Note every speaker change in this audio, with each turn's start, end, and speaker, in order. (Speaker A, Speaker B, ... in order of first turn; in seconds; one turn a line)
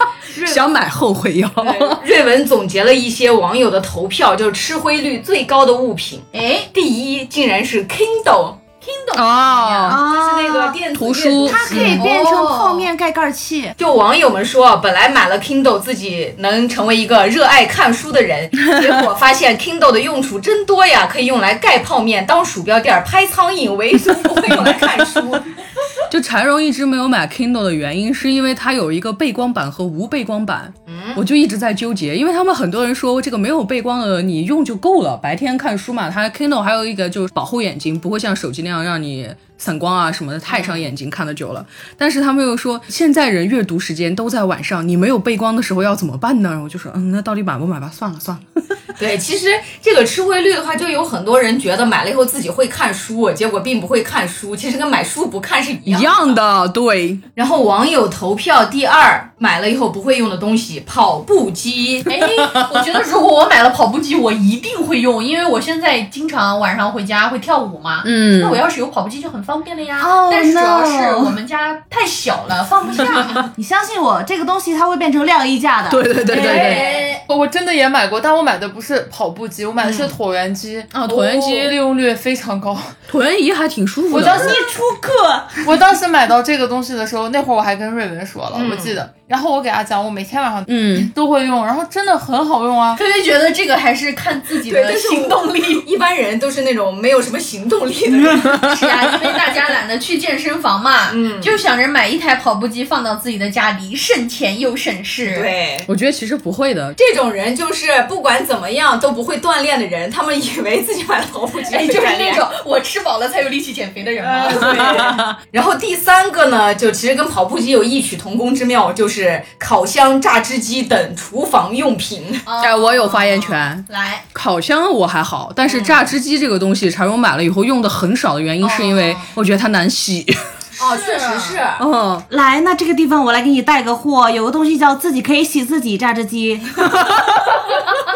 Speaker A: 0.4-2.0
Speaker B: 1.6-8.6
Speaker C: 6.3-6.7
Speaker C: 8.8-10.0
Speaker A: 9.1-10.0
Speaker D: 9.9-10.8
Speaker B: 9.9-12.0
Speaker A: 10.9-12.2
Speaker D: 11.4-13.8
Speaker C: 11.8-12.9
Speaker B: 13.8-25.5
Speaker A: 26.1-48.4
Speaker B: 30.9-31.2
Speaker B: 40.5-40.9
Speaker B: 49.0-56.3
Speaker A: 55.9-57.2
Speaker B: 57.4-62.1
Speaker C: 62.1-73.5
Speaker A: 68.0-68.6
Speaker D: 70.0-71.4
Speaker D: 73.5-76.1
Speaker A: 75.9-76.9
Speaker C: 76.3-77.2
Speaker B: 76.3-77.1
Speaker E: 76.6-82.9
Speaker B: 79.8-80.1
Speaker A: 80.9-81.8
Speaker A: 83.1-84.6
Speaker E: 84.1-84.8
Speaker D: 84.2-85.7
Speaker E: 85.6-93.0
Speaker B: 88.5-89.0
Speaker A: 90.7-91.1
Speaker C: 93.0-95.9
Speaker B: 94.6-98.6
Speaker C: 98.3-105.5
Speaker B: 101.1-101.6
Speaker B: 105.2-105.9
Speaker A: 105.9-107.0
Speaker B: 107.0-112.5
Speaker C: 111.7-115.2
Speaker B: 114.2-122.5
Speaker C: 122.5-124.2
Speaker A: 122.6-130.4
Speaker B: 125.7-126.1
Speaker C: 128.6-129.3
Speaker B: 130.8-131.8
Speaker C: 130.8-131.6
Speaker A: 131.8-132.3
Speaker D: 132.3-136.8